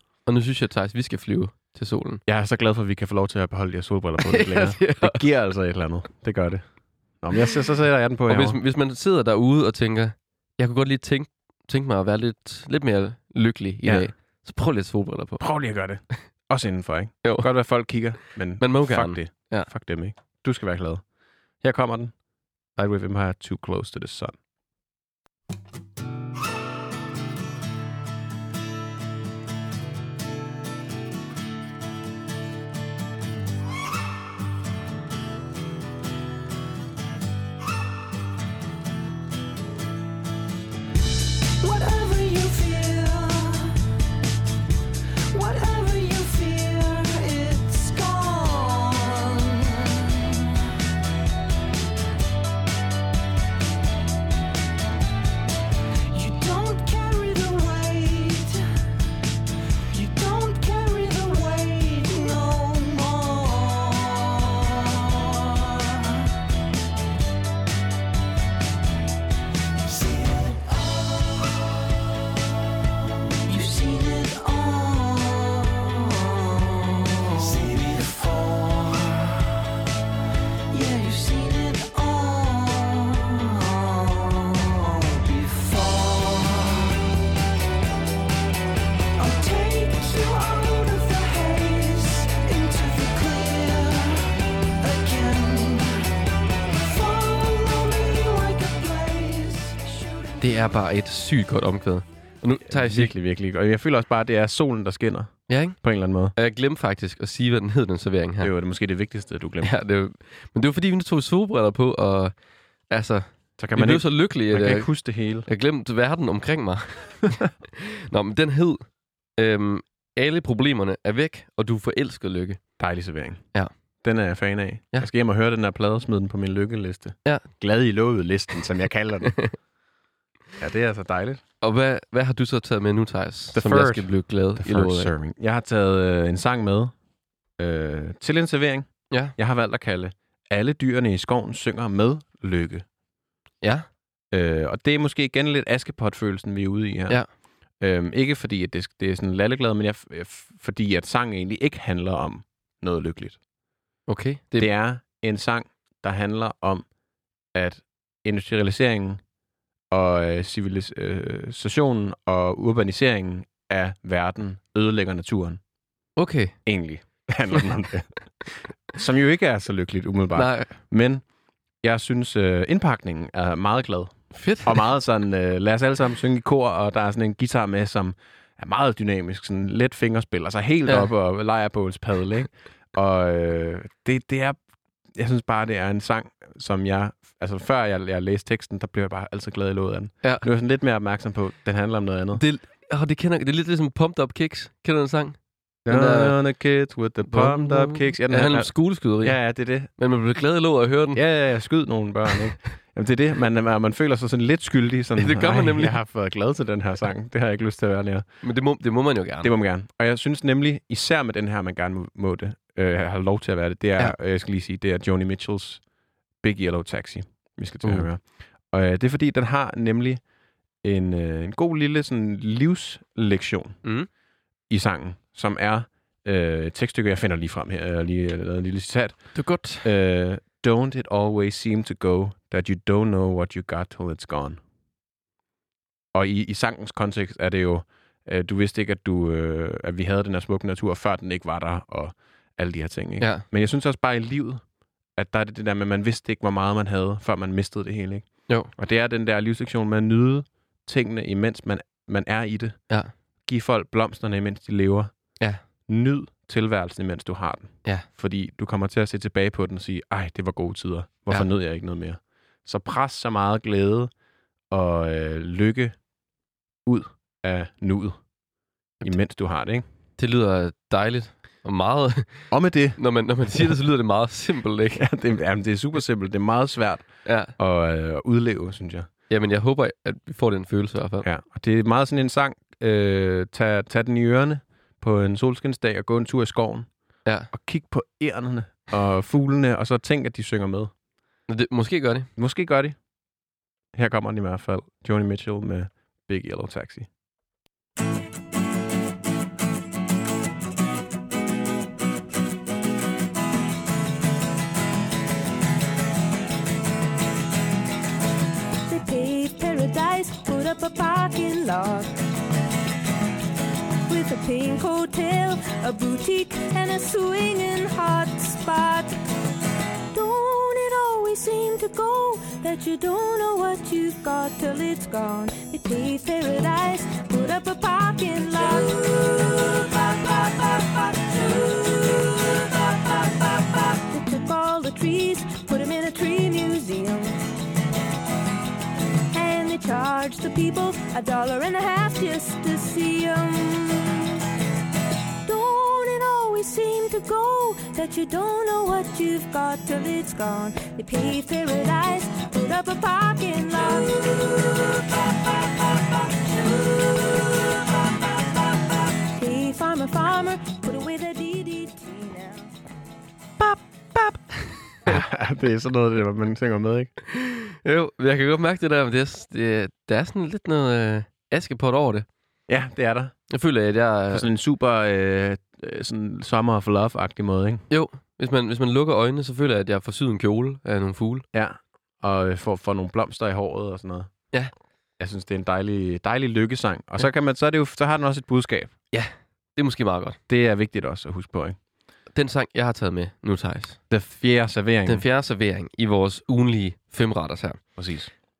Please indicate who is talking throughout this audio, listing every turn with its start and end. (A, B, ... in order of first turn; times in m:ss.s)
0:00.2-0:02.2 A
0:02.2-0:06.7 B
0:04.2-0:05.2 A
0:07.2-0:08.6 B
0:08.3-0:15.4 A
0:13.8-0:14.1 B
0:15.4-0:21.0 B
0:17.2-0:18.0 A
0:18.6-0:19.7 A
0:21.6-0:22.2 B
0:22.7-0:24.3 B
1:40.4-1:43.1 A
1:42.7-1:46.3 B
1:45.5-1:45.8 A
1:46.4-1:48.5 A
1:48.4-1:49.7 B
1:49.6-1:52.3 A
1:52.9-1:54.9 A
1:53.6-1:55.5 B
1:55.4-1:58.8 A
1:59.4-2:02.6 A
2:02.8-2:03.4 B
2:04.0-2:09.4 B
2:09.3-2:09.5 A
2:10.6-2:11.4 B
2:11.6-2:15.1 A
2:13.5-2:16.9 B
2:17.6-2:22.8 B
2:24.3-2:27.2 B
2:27.8-2:33.4 B
2:34.1-2:34.7 A
2:34.6-2:36.8 B
2:37.5-2:39.2 B
2:39.9-2:45.6 B
2:46.2-2:46.6 A
2:46.6-2:48.1 B
2:48.9-2:51.2 B
2:50.4-2:50.7 A
2:51.8-3:04.6 B
2:54.3-2:54.8 A
3:05.1-3:12.4 B
3:12.4-3:16.4 A
3:15.8-3:19.9 B
3:17.3-3:21.2 A
3:21.1-3:28.2 B
3:25.2-3:26.0 A
3:28.4-3:29.5 A
3:29.4-3:35.8 B
3:36.4-3:40.2 B
3:40.8-3:43.8 B
3:44.7-3:54.6 B
3:49.3-3:49.9 A
3:56.1-4:04.6 B
4:03.2-4:03.4 A
4:05.1-4:12.8 B
4:13.4-4:15.2 B
4:15.9-4:24.1 B
4:24.7-4:26.0 B
4:26.8-4:28.2 B
4:29.0-4:29.8 B
4:30.2-4:32.4 A
4:32.5-4:33.0 B
4:33.0-4:35.0 A
4:34.9-4:39.1 B
4:37.2-4:37.5 A
4:39.3-4:41.2 A
4:41.2-4:46.9 B
4:47.5-4:50.9 B
4:51.5-4:52.3 A
4:52.4-4:53.0 B
4:53.9-4:57.1 B
5:08.8-5:12.1 C
5:14.1-5:19.1 C
5:20.1-5:37.4 C
5:39.3-5:44.4 C
5:45.4-5:54.8 C
5:56.5-5:57.5 C
5:59.3-6:02.7 C
6:03.6-6:05.2 A
6:05.0-6:07.1 B
6:07.3-6:12.2 A
6:12.7-6:13.3 B
6:13.5-6:14.5 A
6:14.3-6:17.8 B
6:17.9-6:21.4 A
6:21.5-6:24.3 B
6:25.2-6:28.9 B
6:29.1-6:30.4 A
6:30.5-6:31.8 B
6:32.3-6:34.0 A
6:34.1-6:35.2 B
6:35.1-6:37.8 A
6:38.0-6:38.3 B